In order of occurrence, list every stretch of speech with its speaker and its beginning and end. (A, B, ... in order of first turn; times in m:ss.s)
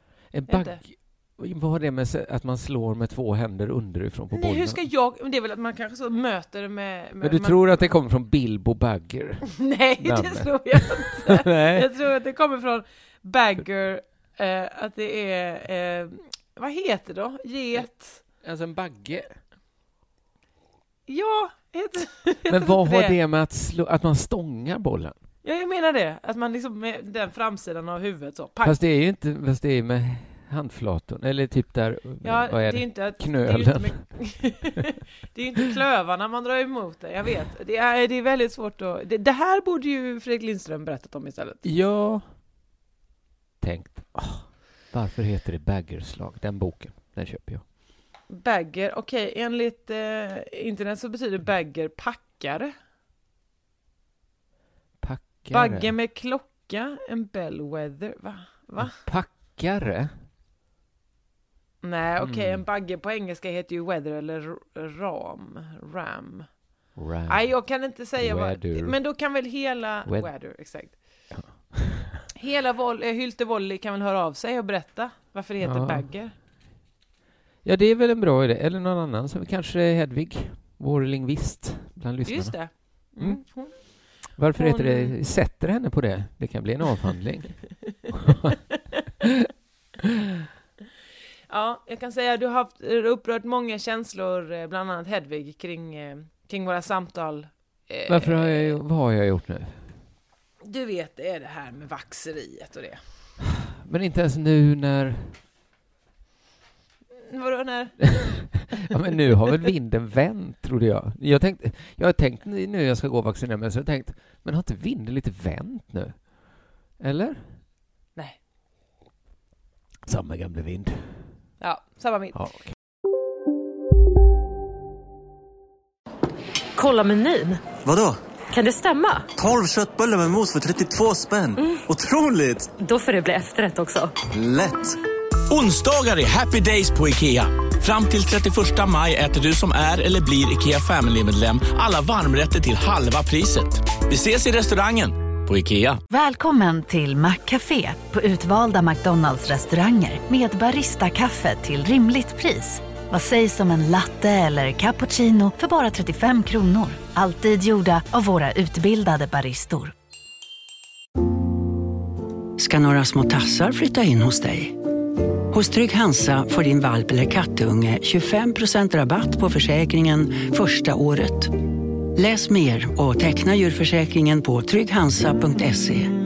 0:00.3-0:04.8 A
0:00.5-0:00.8 B
0:04.3-0:07.8 B
0:07.2-0:11.9 A
0:09.5-0:18.2 B
0:18.4-0:19.4 A
0:21.1-0:23.2 B
0:22.5-0:25.2 A
0:25.4-0:28.8 B
0:28.6-0:34.7 A
0:32.2-0:41.6 B
0:41.6-0:42.3 A
0:43.6-0:47.6 A
0:48.3-0:52.7 B
0:55.0-0:56.0 A
0:55.5-0:59.0 B
0:58.8-1:00.1 A
1:01.8-1:06.8 B
1:02.2-1:02.6 A
1:07.0-1:07.6 A
1:07.3-1:11.2 B
1:08.1-1:09.0 A
1:10.1-1:10.4 A
1:11.3-1:12.3 A
1:12.4-1:16.4 B
1:15.6-1:16.1 A
1:17.6-1:23.4 A
1:22.3-1:25.1 B
1:24.2-1:28.3 A
1:29.2-1:29.5 A
1:31.5-1:38.8 B
1:38.1-1:39.9 A
1:40.6-1:43.0 B
1:43.6-1:45.4 A
1:47.3-1:48.5 B
1:48.5-1:57.6 A
2:00.1-2:01.5 A
2:01.6-2:02.4 B
2:02.4-2:02.8 A
2:06.8-2:07.6 C
2:07.8-2:08.2 D
2:08.5-2:09.3 C
2:09.4-2:12.7 D
2:12.8-2:14.1 C
2:14.3-2:15.0 D
2:15.5-2:26.0 E
2:26.1-2:39.9 F
2:42.6-2:44.7 G
2:45.5-2:51.5 G
2:52.2-2:56.1 G